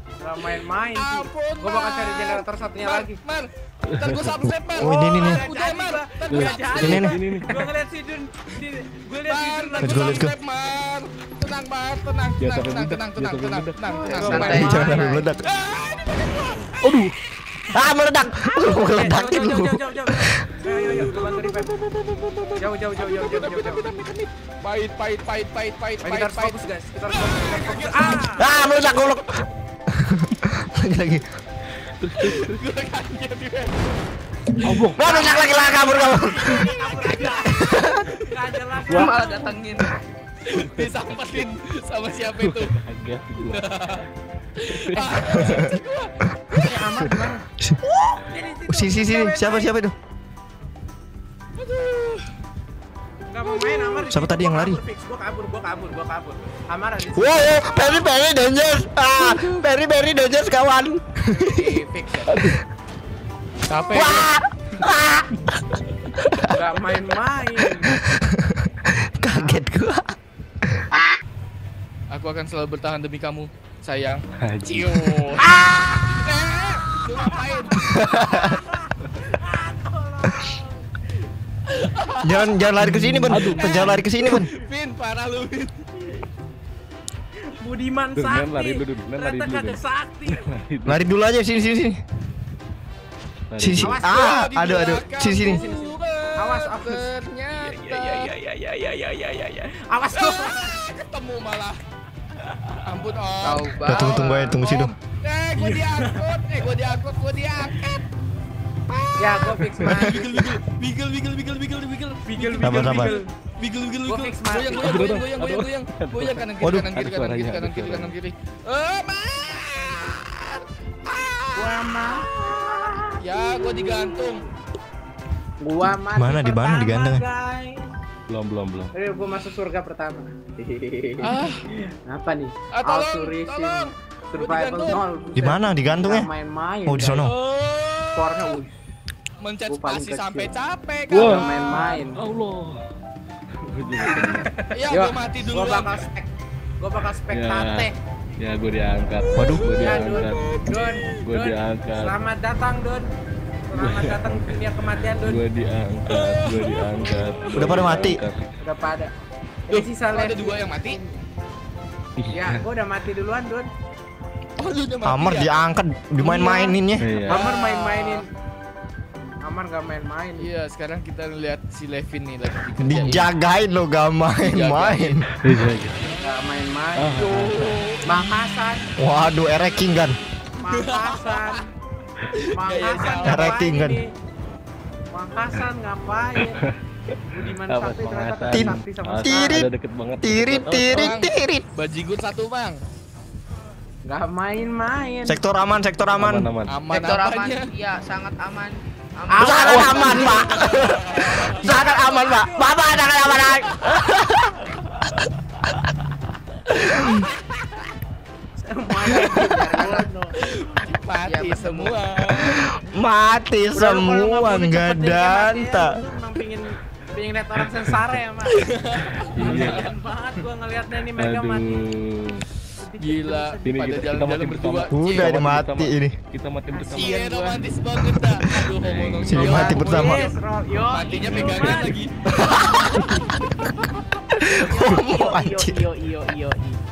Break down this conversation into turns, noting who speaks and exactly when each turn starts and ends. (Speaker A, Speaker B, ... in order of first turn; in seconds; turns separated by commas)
Speaker A: 0.2-3.2, Speaker B: 0.9-7.1, Speaker C: 3.9-4.4, Speaker A: 4.8-10.2, Speaker D: 4.8-5.4, Speaker C: 6.3-7.6, Speaker D: 6.8-7.2, Speaker B: 9.3-17.0, Speaker D: 9.8-10.3, Speaker C: 12.4-14.9, Speaker E: 13.9-15.3, Speaker D: 14.2-15.5, Speaker A: 14.3-15.1, Speaker C: 16.8-17.2, Speaker D: 17.7-20.4, Speaker A: 18.7-21.8, Speaker B: 20.7-21.2, Speaker C: 20.9-22.5, Speaker A: 22.6-24.0, Speaker B: 23.0-28.7, Speaker A: 26.0-28.5, Speaker D: 28.4-29.3, Speaker D: 29.9-31.2, Speaker C: 31.8-32.6, Speaker B: 32.2-34.0, Speaker C: 34.6-35.3, Speaker D: 35.0-38.1, Speaker A: 35.1-39.6, Speaker B: 35.1-36.8, Speaker C: 38.9-39.2, Speaker E: 39.0-40.0, Speaker B: 40.5-42.8, Speaker C: 40.5-41.5, Speaker C: 42.4-43.7, Speaker B: 43.5-46.7, Speaker C: 44.7-45.6, Speaker A: 44.9-45.3, Speaker D: 45.3-45.7, Speaker A: 46.5-47.5, Speaker D: 46.6-47.1, Speaker A: 48.1-49.7, Speaker D: 48.7-49.9, Speaker B: 51.6-52.3, Speaker A: 53.3-57.7, Speaker B: 53.7-53.9, Speaker D: 54.0-54.8, Speaker D: 57.1-61.8, Speaker B: 59.1-59.6, Speaker A: 61.3-62.4, Speaker C: 62.3-62.6, Speaker B: 63.7-64.3, Speaker D: 63.9-65.5, Speaker D: 66.2-66.6, Speaker A: 66.5-68.0, Speaker D: 67.8-70.2, Speaker D: 70.7-70.9, Speaker B: 72.1-75.5, Speaker C: 74.4-75.4, Speaker A: 75.4-80.8, Speaker B: 76.1-78.0, Speaker D: 77.8-78.6, Speaker B: 81.7-82.7, Speaker D: 82.2-84.5, Speaker C: 82.9-84.5, Speaker B: 83.3-85.8, Speaker A: 87.6-90.5, Speaker C: 88.2-91.0, Speaker D: 90.9-92.0, Speaker C: 93.5-94.0, Speaker D: 93.6-95.6, Speaker A: 93.8-94.2, Speaker B: 94.0-98.3, Speaker A: 95.4-97.1, Speaker A: 97.6-100.8, Speaker B: 100.2-101.8, Speaker B: 102.6-108.1, Speaker E: 103.4-104.6, Speaker D: 103.8-104.9, Speaker A: 105.6-106.3, Speaker B: 108.9-124.5, Speaker A: 109.2-110.5, Speaker D: 109.8-110.2, Speaker A: 112.2-113.3, Speaker D: 112.6-113.2, Speaker A: 114.1-115.0, Speaker C: 114.8-118.2, Speaker D: 116.6-116.9, Speaker A: 121.5-124.4, Speaker A: 125.6-127.9, Speaker D: 126.2-127.2, Speaker C: 128.3-128.9, Speaker A: 128.9-137.3, Speaker B: 131.2-131.7, Speaker B: 132.7-135.0, Speaker D: 135.4-136.3, Speaker D: 136.9-137.3, Speaker B: 137.2-138.4, Speaker A: 138.1-138.7, Speaker B: 139.4-141.8, Speaker A: 139.7-140.5, Speaker C: 141.1-142.8, Speaker A: 141.1-142.2, Speaker C: 143.6-144.6, Speaker A: 144.1-146.3, Speaker B: 144.7-146.1, Speaker A: 146.8-148.0, Speaker C: 147.3-150.4, Speaker B: 149.2-151.1, Speaker D: 149.4-149.8, Speaker A: 149.8-153.1, Speaker C: 151.2-152.2, Speaker A: 153.7-155.4, Speaker C: 153.7-158.5, Speaker B: 156.1-156.9, Speaker D: 157.6-158.2, Speaker A: 158.6-159.1, Speaker B: 159.7-161.0, Speaker A: 159.7-161.2, Speaker C: 162.2-162.6, Speaker A: 162.3-163.7, Speaker B: 164.6-165.6, Speaker D: 165.0-167.1, Speaker B: 166.2-168.2, Speaker C: 167.0-167.5, Speaker A: 167.3-168.3, Speaker A: 169.4-170.5, Speaker B: 170.4-173.3, Speaker D: 172.8-175.3, Speaker B: 174.4-175.2, Speaker C: 175.4-176.0, Speaker A: 176.2-178.8, Speaker C: 177.0-177.9, Speaker B: 177.2-178.0, Speaker D: 179.0-180.2, Speaker A: 180.6-181.7, Speaker B: 180.7-181.7, Speaker B: 182.3-183.6, Speaker A: 182.6-184.1, Speaker D: 183.2-184.0, Speaker A: 185.1-186.6, Speaker C: 186.4-186.7, Speaker A: 187.2-189.6, Speaker C: 187.4-191.1, Speaker D: 188.5-189.7, Speaker D: 190.2-191.7, Speaker B: 190.9-192.8, Speaker A: 194.1-195.4, Speaker D: 195.3-196.5, Speaker C: 196.1-196.8, Speaker B: 196.7-197.7, Speaker E: 196.9-200.5, Speaker A: 199.3-203.5, Speaker D: 199.4-205.1, Speaker B: 200.4-201.8, Speaker B: 206.7-207.7, Speaker D: 206.9-207.3, Speaker A: 208.7-210.3, Speaker D: 209.2-209.6, Speaker E: 209.7-210.1, Speaker B: 210.4-212.6, Speaker E: 211.2-212.0, Speaker D: 212.4-216.0, Speaker A: 213.7-221.9, Speaker B: 218.5-219.9, Speaker C: 219.2-219.9, Speaker C: 221.2-222.5, Speaker A: 222.8-224.1, Speaker B: 223.0-225.3, Speaker C: 223.6-227.2, Speaker D: 224.9-226.2, Speaker A: 226.7-227.6, Speaker B: 226.9-230.3, Speaker C: 228.8-229.6, Speaker D: 229.3-230.3, Speaker A: 229.3-232.0, Speaker B: 230.9-233.3, Speaker C: 231.3-231.9, Speaker D: 232.3-233.0, Speaker C: 233.0-233.3, Speaker D: 233.6-235.8, Speaker A: 234.4-236.8, Speaker E: 234.9-235.4